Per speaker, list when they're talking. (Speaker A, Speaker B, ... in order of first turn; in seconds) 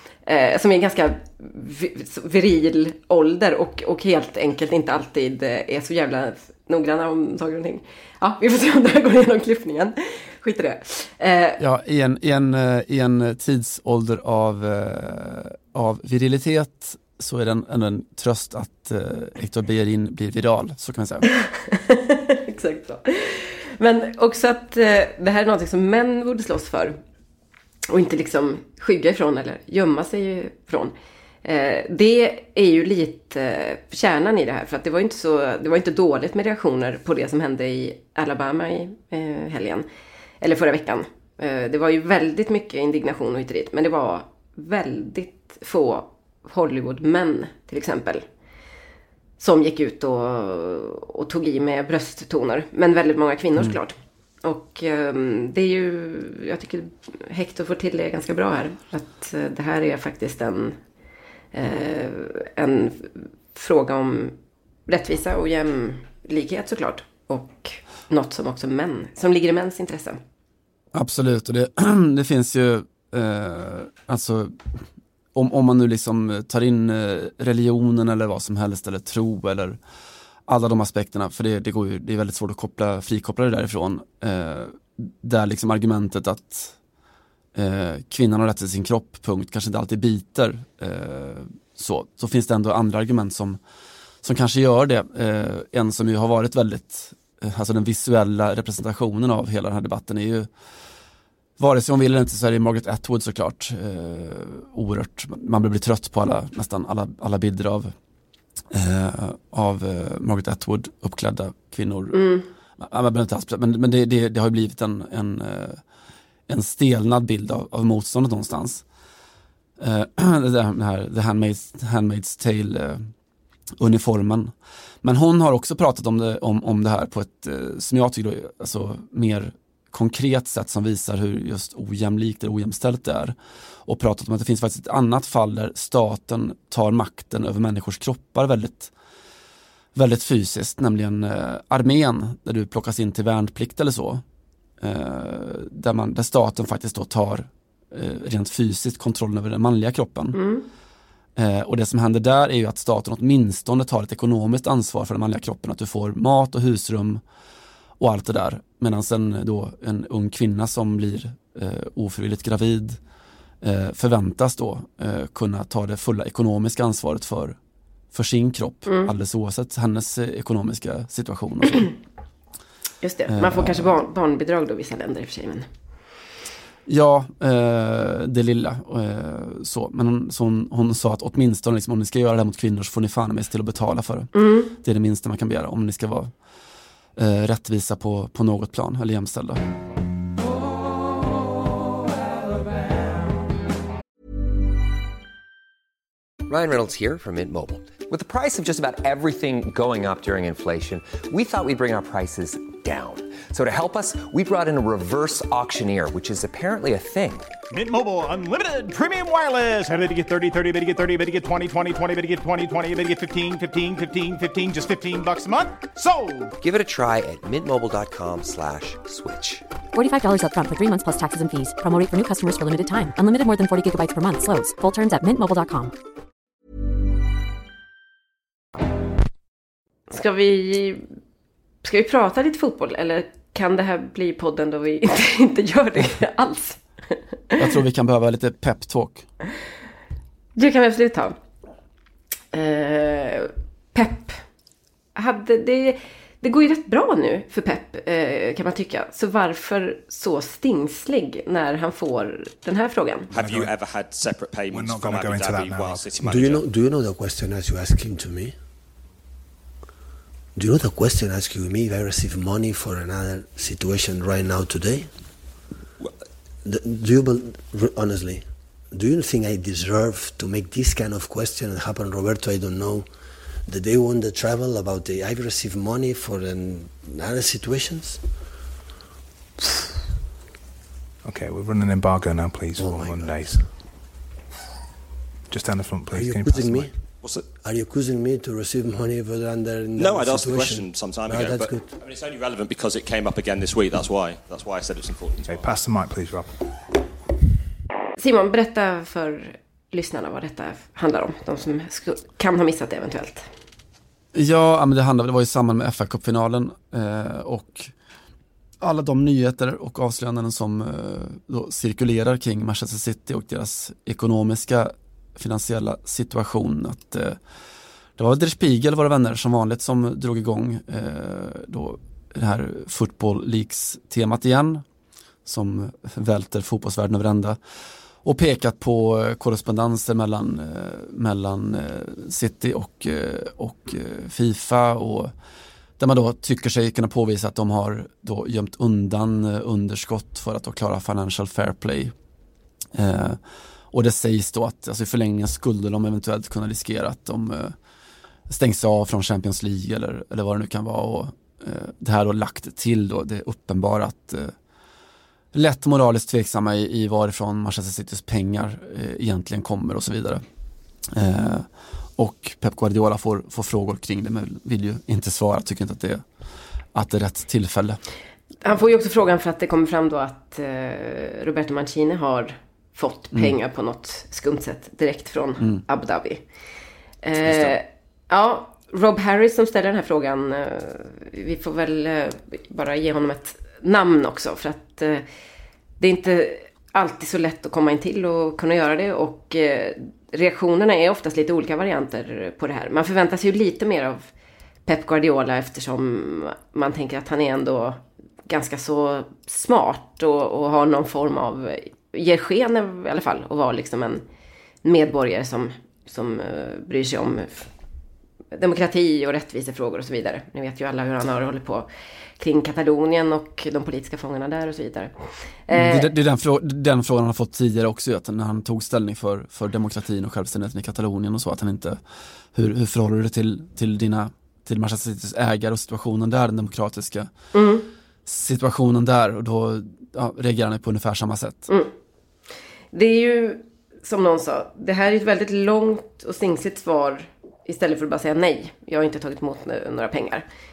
Speaker A: 0.3-11.6, 21.4-27.0, 27.9-30.9, 31.4-39.9, 40.4-48.2, 49.4-60.8, 61.5-64.3, 64.9-70.2, 112.1-112.5, 150.3-150.7, 168.9-169.1, 173.0-175.7, 184.3-184.7, 230.1-231.0, 231.8-236.8, 240.6-241.4, 242.5-244.4, 245.2-253.3, 298.2-303.5, 368.6-376.4, 377.2-385.2, 386.0-394.3, 394.9-404.2, 404.8-407.7, 408.5-416.1, 427.5-427.9, 432.9-440.4
Speaker B: 11.6-21.3, 70.9-74.7, 75.3-79.8, 80.5-86.8, 87.5-93.6, 94.2-100.5, 101.6-107.9, 108.7-115.8, 116.5-118.8, 119.8-123.1, 123.8-138.9, 139.9-144.2, 144.8-150.4, 151.4-157.2, 158.0-163.0, 163.6-167.6, 168.1-171.9, 173.3-173.9, 176.9-186.3, 187.2-189.7, 237.6-239.3, 304.3-307.9, 308.8-317.4, 318.2-324.9, 325.4-327.6, 328.2-335.3, 336.0-342.1, 342.9-343.4, 343.9-347.8, 348.5-354.5, 355.5-360.4, 361.1-366.2, 366.9-368.0, 377.4-377.8, 415.7-422.0, 422.5-427.3, 428.3-431.7
Speaker C: 196.5-207.5, 216.6-219.6
Speaker D: 207.7-216.5
Speaker E: 219.9-225.9
Speaker F: 253.3-256.7, 290.0-295.8
Speaker G: 253.4-253.7, 254.7-256.2, 281.2-283.7, 285.5-286.9, 295.4-296.7
Speaker H: 256.2-258.6, 260.6-265.1, 266.6-273.1, 273.7-278.2, 282.7-283.7, 286.1-286.9, 287.6-291.9